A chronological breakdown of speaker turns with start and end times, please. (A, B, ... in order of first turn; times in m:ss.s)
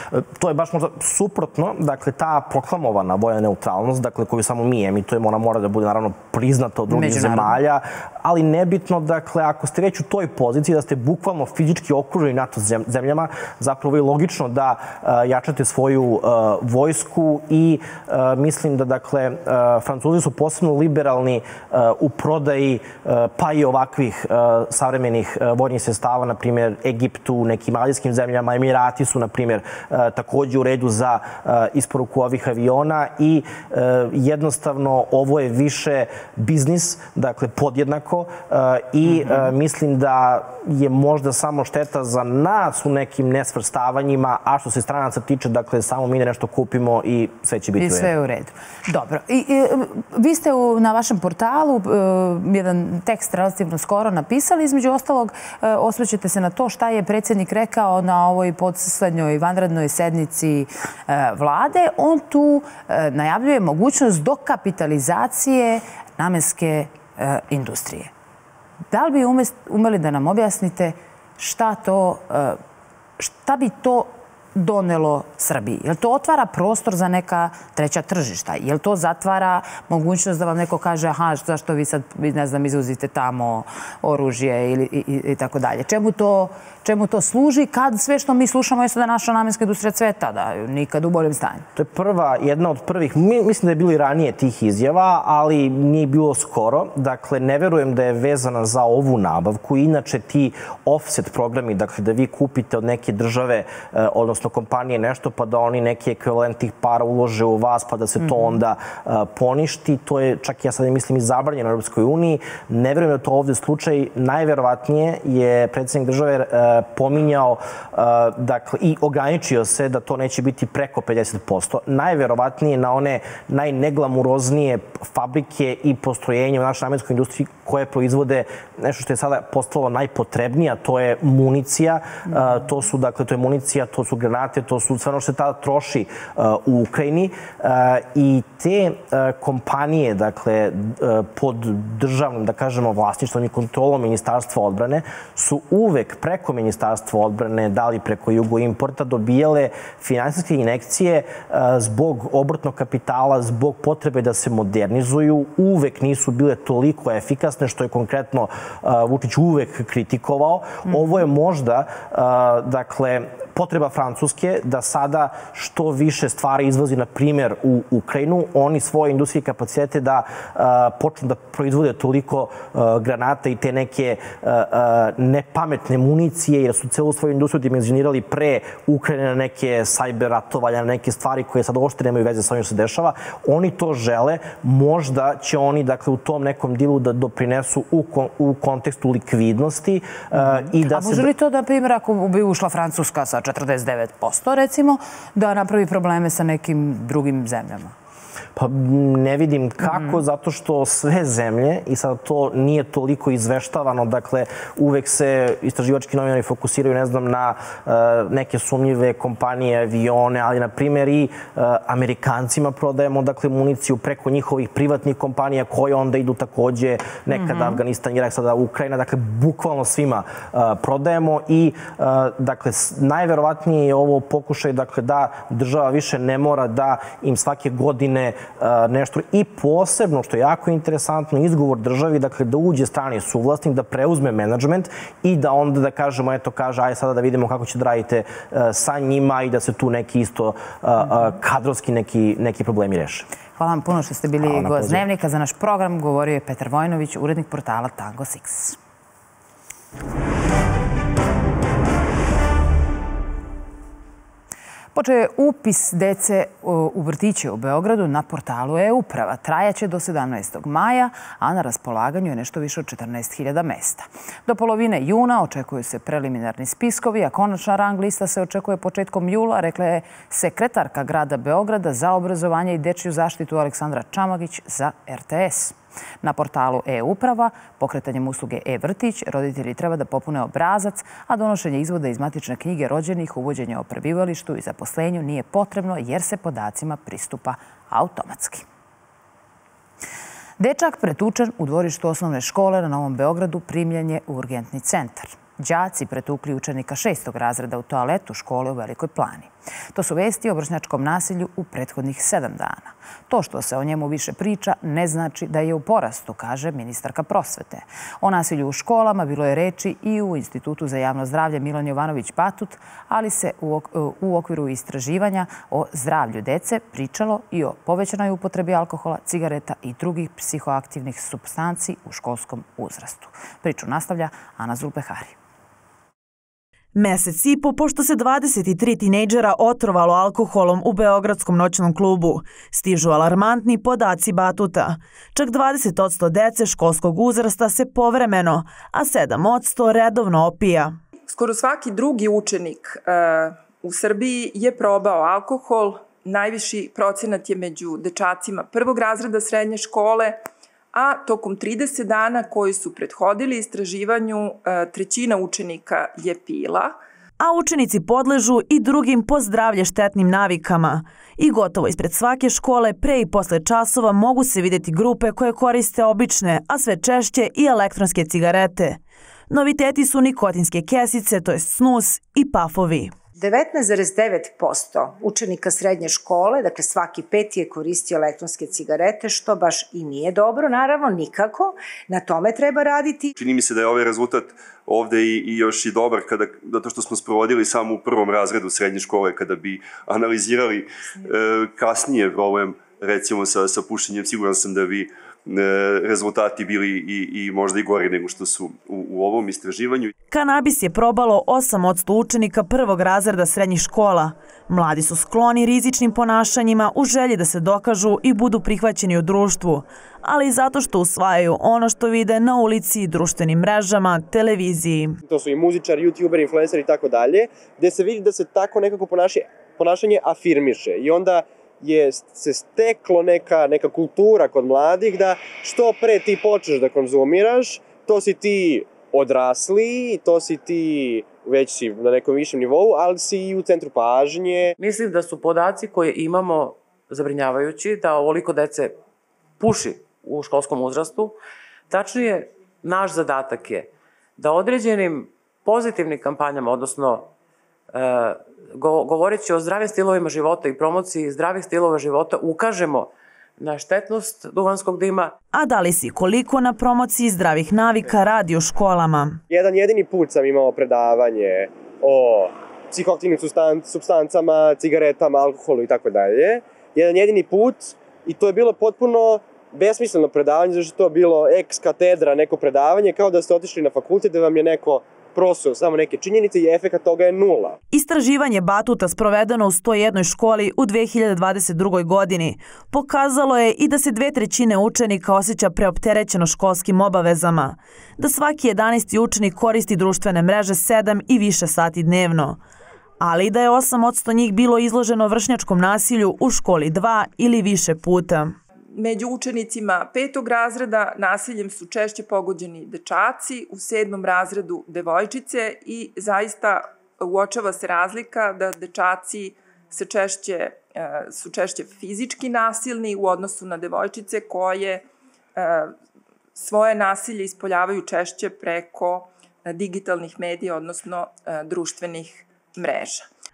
0:00.1-0:48.1 A
0:06.9-0:07.6 B
0:39.0-0:39.5 B
0:47.8-1:08.1 B
1:08.9-1:12.6 B
1:13.2-1:31.7 B
1:31.8-3:11.3 A
1:48.2-1:48.6 B
2:40.9-2:41.2 B
3:10.3-3:17.9 B
3:18.6-4:03.3 A
3:19.8-3:20.2 B
3:37.3-3:37.8 B
4:03.6-4:08.8 B
4:04.4-4:05.0 A
4:15.0-4:48.6 B
4:50.6-5:25.4 B
5:27.0-5:41.0 C
5:41.3-5:50.4 D
5:50.9-5:57.0 D
5:57.4-6:13.2 C
6:13.4-6:23.3 E
6:23.4-6:40.1 F
6:40.3-6:55.2 C
6:55.3-7:14.7 G
7:14.8-7:19.0 H
7:19.6-7:21.4 H
7:21.9-7:27.3 H
7:27.9-7:35.3 H
7:35.5-7:39.4 C
7:39.5-7:57.8 G
7:57.9-8:12.6 C
8:13.2-8:18.6 C
8:18.9-8:36.0 D
8:36.6-8:43.3 D